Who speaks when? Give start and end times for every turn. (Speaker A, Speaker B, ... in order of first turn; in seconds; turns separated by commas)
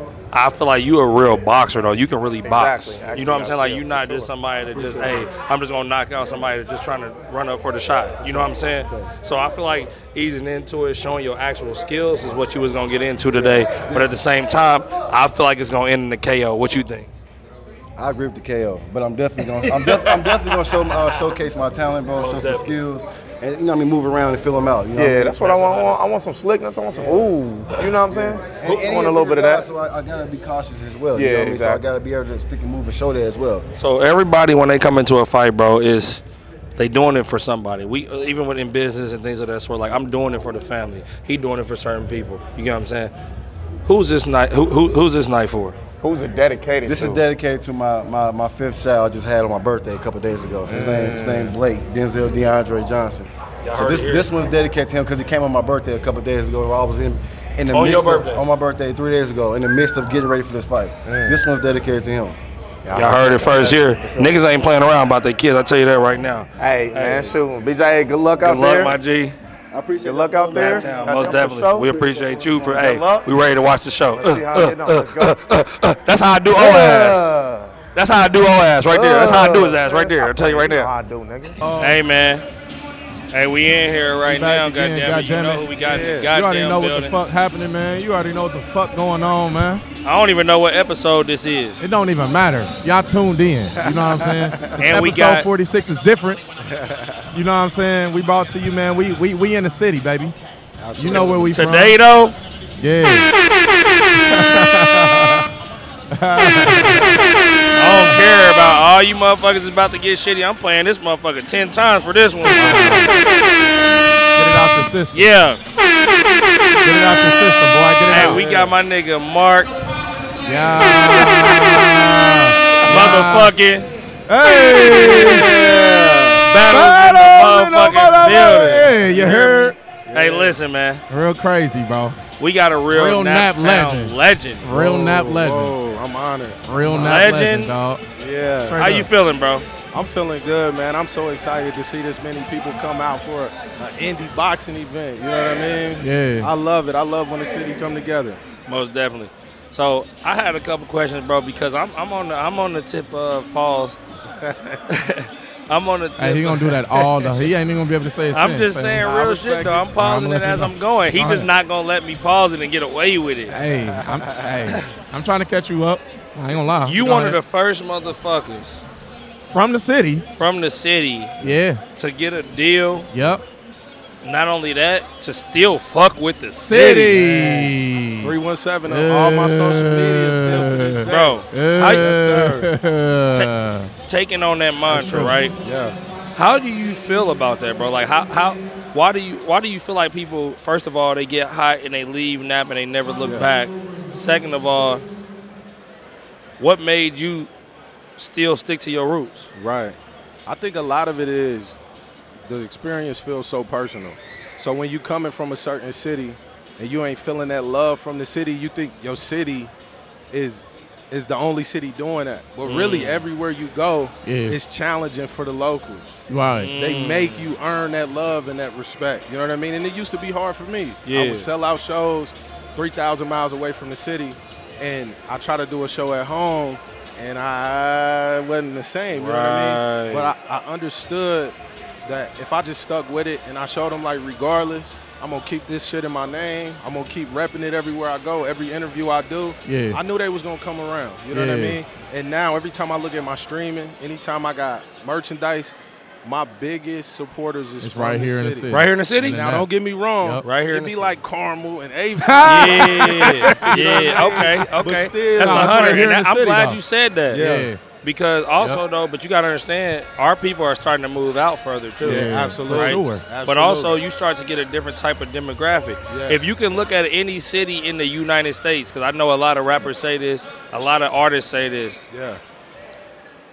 Speaker A: 0.3-17.1, Speaker B: 2.4-4.3, Speaker C: 4.7-5.2, Speaker C: 8.2-9.1, Speaker C: 13.3-14.1, Speaker C: 18.0-25.7, Speaker A: 19.8-20.4, Speaker A: 22.2-22.7, Speaker B: 25.0-29.6, Speaker A: 25.5-25.9, Speaker C: 26.9-27.3, Speaker C: 28.1-33.7, Speaker B: 31.1-31.8, Speaker A: 33.8-36.2, Speaker A: 36.8-43.1, Speaker A: 43.9-45.8, Speaker B: 46.0-47.2, Speaker C: 46.8-62.4, Speaker B: 50.7-51.5, Speaker A: 53.6-54.3, Speaker A: 57.7-58.4, Speaker B: 61.1-61.4, Speaker B: 62.9-63.9, Speaker A: 62.9-67.3, Speaker C: 63.6-64.4, Speaker B: 66.6-69.0, Speaker A: 68.4-69.3, Speaker C: 69.7-72.4, Speaker B: 70.0-73.3, Speaker A: 70.5-77.3, Speaker B: 74.1-75.4, Speaker B: 76.5-77.7, Speaker A: 78.0-80.9, Speaker B: 78.9-81.6, Speaker D: 81.6-82.0, Speaker A: 81.8-82.5, Speaker A: 83.3-87.2, Speaker D: 84.2-85.7, Speaker E: 86.0-86.2, Speaker D: 86.3-89.8, Speaker A: 90.0-91.8, Speaker D: 91.8-96.4, Speaker E: 93.8-94.8, Speaker A: 94.8-95.5, Speaker E: 96.7-97.3, Speaker D: 97.3-100.4, Speaker E: 100.8-101.5, Speaker D: 101.0-102.0, Speaker A: 101.0-102.4, Speaker D: 102.8-103.3, Speaker D: 104.2-105.5, Speaker D: 106.1-107.2, Speaker A: 107.8-113.2, Speaker D: 107.8-108.2, Speaker D: 112.5-113.1, Speaker D: 114.4-115.3, Speaker A: 115.1-115.6, Speaker D: 116.8-118.4, Speaker A: 118.1-119.7, Speaker E: 118.2-118.7, Speaker D: 120.5-123.5, Speaker A: 120.9-121.8, Speaker A: 122.8-123.9, Speaker D: 124.3-125.5, Speaker A: 125.0-125.8, Speaker E: 125.2-126.4, Speaker A: 126.4-131.0, Speaker D: 126.7-129.8, Speaker E: 128.2-130.6, Speaker D: 131.1-132.2, Speaker A: 132.4-134.7, Speaker D: 132.9-135.8, Speaker E: 134.7-137.2, Speaker D: 136.7-138.0, Speaker A: 136.9-137.7, Speaker E: 138.2-138.8, Speaker D: 138.7-139.1, Speaker A: 138.8-139.7, Speaker E: 139.9-148.4, Speaker D: 146.0-146.5, Speaker A: 148.7-154.0, Speaker E: 154.4-154.8, Speaker A: 154.9-157.3, Speaker D: 156.2-159.1, Speaker A: 158.3-163.6, Speaker E: 159.0-159.9, Speaker D: 160.0-161.5, Speaker D: 163.5-167.4, Speaker E: 163.9-164.6, Speaker A: 166.8-168.8, Speaker D: 169.5-170.2, Speaker A: 170.4-173.1, Speaker D: 171.4-171.8, Speaker D: 173.1-173.4, Speaker A: 174.2-177.7, Speaker D: 176.6-178.4, Speaker E: 178.2-182.7, Speaker D: 178.9-183.9, Speaker A: 181.1-182.2, Speaker A: 184.1-185.6, Speaker D: 184.9-185.4, Speaker E: 185.1-186.0, Speaker A: 186.4-195.0, Speaker A: 196.6-197.5, Speaker A: 198.2-199.5, Speaker E: 199.6-201.8, Speaker E: 202.4-209.7, Speaker E: 210.3-216.2, Speaker A: 212.6-213.2, Speaker D: 214.2-214.6, Speaker D: 216.3-216.7, Speaker A: 216.6-217.6, Speaker E: 216.8-256.1, Speaker A: 221.1-221.5, Speaker A: 229.1-230.3, Speaker D: 239.7-240.0, Speaker D: 241.3-241.8, Speaker D: 247.8-249.7, Speaker A: 248.7-249.6, Speaker D: 250.2-250.4, Speaker A: 250.4-251.2, Speaker D: 252.2-254.5, Speaker A: 252.4-257.5, Speaker D: 255.4-256.8, Speaker E: 257.3-257.7, Speaker D: 257.3-257.8, Speaker A: 258.0-272.1, Speaker D: 262.0-263.2, Speaker E: 262.0-264.0, Speaker E: 266.1-266.4, Speaker E: 272.1-272.4